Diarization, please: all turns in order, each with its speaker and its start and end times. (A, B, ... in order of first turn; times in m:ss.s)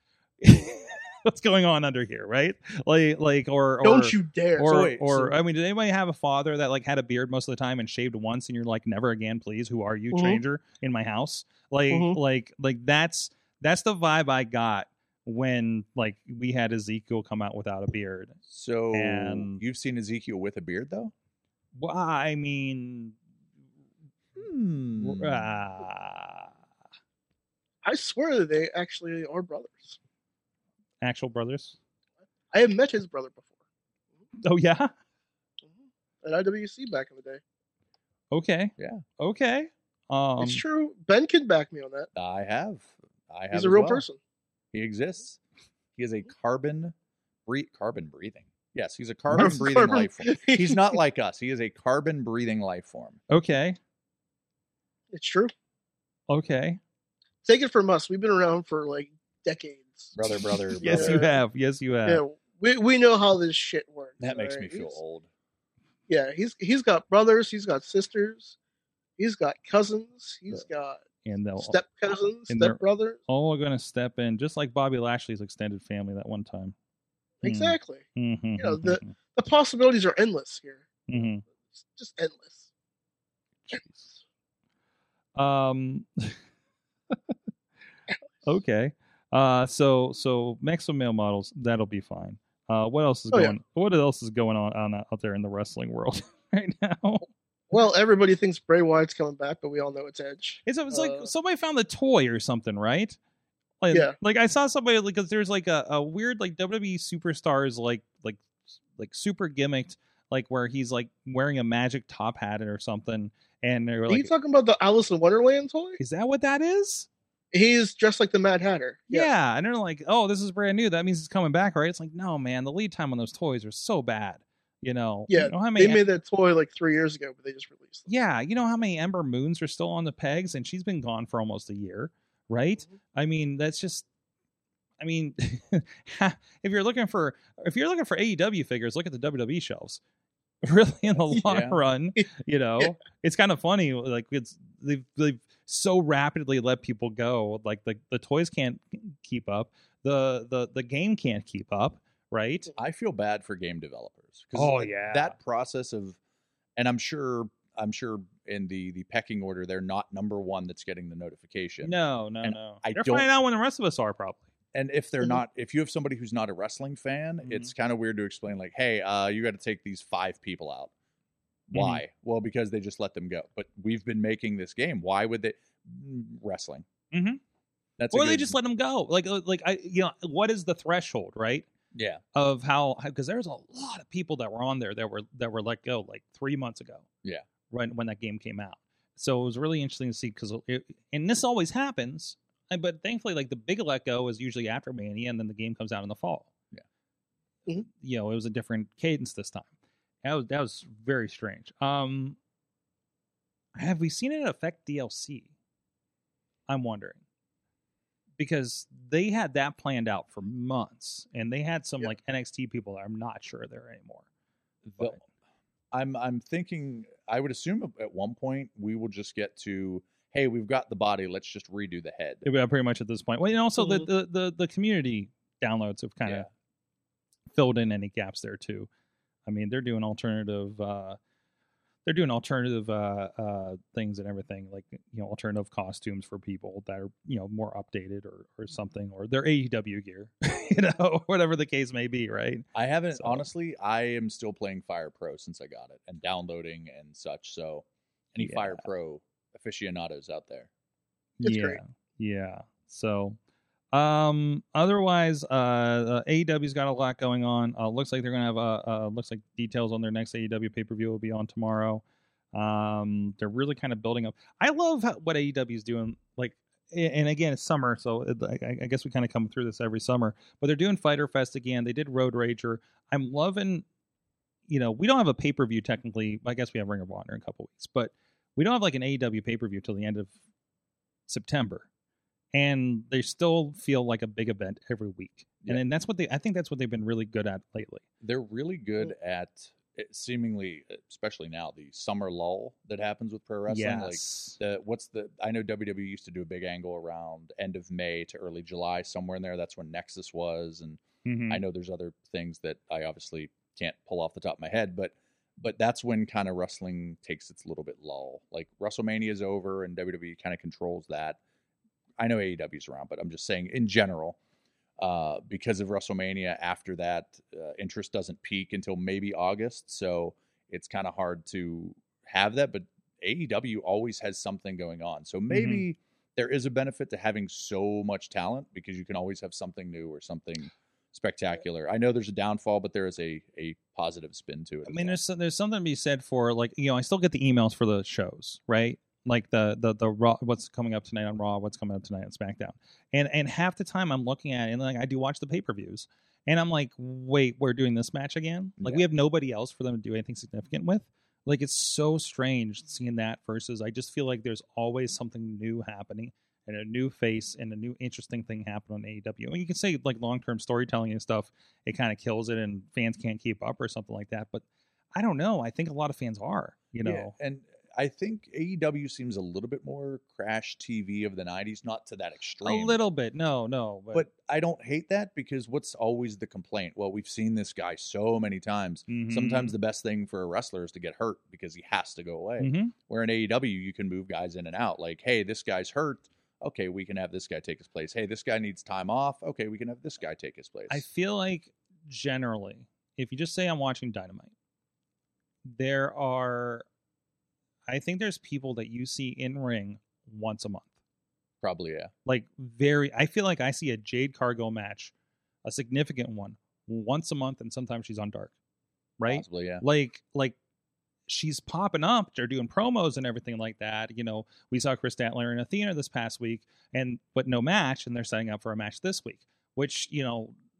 0:00.4-0:18.4 A
0:03.8-0:04.7 B
0:04.6-0:05.3 C
0:10.1-0:10.4 B
0:11.9-0:12.2 B
0:18.5-0:21.1 C
0:18.9-0:19.6 A
0:21.8-0:23.2 A
0:24.4-0:25.6 C
0:25.0-0:26.5 A
0:27.8-0:30.0 B
0:31.0-0:31.8 A
0:32.5-0:33.5 B
0:34.4-0:34.9 A
0:35.6-0:37.4 B
0:38.3-0:40.6 A
0:38.8-0:39.0 C
0:40.4-0:42.1 B
0:42.2-0:44.0 C
0:43.5-0:44.2 B
0:44.7-0:45.4 C
0:46.0-0:46.9 C
0:47.5-0:53.2 C
0:49.4-0:51.0 B
0:53.3-0:53.8 A
0:55.1-0:55.5 B
0:56.3-0:56.8 A
0:57.4-1:01.4 B
1:00.2-1:01.2 C
1:00.8-1:02.2 A
1:02.1-1:05.0 B
1:04.2-1:05.3 C
1:06.1-1:08.6 B
1:09.2-1:11.0 B
1:11.2-1:11.8 A
1:11.6-1:13.2 B
1:12.5-1:16.8 A
1:17.4-1:18.1 B
1:17.4-1:19.1 A
1:18.6-1:22.7 B
1:21.1-1:21.4 A
1:23.7-1:24.0 A
1:25.4-1:26.4 A
1:28.4-1:37.3 A
1:37.7-1:41.3 B
1:40.7-1:43.2 A
1:43.8-1:48.4 A
1:49.0-1:54.3 A
1:54.1-1:56.0 B
1:56.0-1:57.1 A
1:57.5-1:59.3 B
1:59.1-2:06.0 A
2:05.3-2:08.1 B
2:08.1-2:14.1 A
2:15.0-2:20.0 A
2:20.6-2:32.7 A
2:21.4-2:21.8 C
2:32.8-2:36.2 C
2:34.5-2:35.4 A
2:36.8-2:43.3 C
2:41.8-2:44.5 A
2:44.7-2:50.9 C
2:47.4-2:47.7 A
2:51.7-2:56.8 C
2:51.7-2:52.0 A
2:57.1-2:57.4 A
2:58.0-2:58.6 C
2:58.1-3:01.7 A
3:01.9-3:02.2 C
3:02.4-3:07.1 A
3:07.7-3:16.5 A
3:17.9-3:19.7 A
3:20.2-3:22.4 A
3:23.8-3:25.5 A
3:26.7-3:27.2 A
3:28.4-3:34.2 A
3:34.8-3:35.2 C
3:35.9-3:42.5 C
3:42.4-3:46.5 A
3:46.2-3:46.5 C
3:47.6-3:48.9 A
3:49.5-3:51.2 A
3:52.1-4:03.5 A
4:02.7-4:10.7 C
4:08.4-4:08.8 A
4:11.4-4:13.4 A
4:11.4-4:11.8 B
4:13.9-4:33.8 A
4:34.7-4:40.3 A
4:41.3-4:41.9 A
4:42.5-4:48.0 A
4:48.2-5:11.4 C
4:53.7-4:54.6 A
5:01.2-5:01.6 A
5:12.2-5:14.4 C
5:15.0-5:35.2 C
5:25.5-5:25.8 A
5:34.9-6:04.6 A
5:48.8-5:49.0 C
6:05.2-6:07.3 A
6:07.0-6:13.0 C
6:12.6-6:14.3 A
6:14.1-6:31.1 C
6:19.1-6:19.8 A
6:22.6-6:22.9 A
6:30.9-6:34.5 A
6:35.7-6:36.8 A
6:37.9-6:40.9 A
6:41.6-6:42.1 C
6:42.3-6:45.1 A
6:45.6-6:48.5 A
6:49.2-6:50.6 A
6:49.3-6:49.8 C
6:51.3-7:00.6 A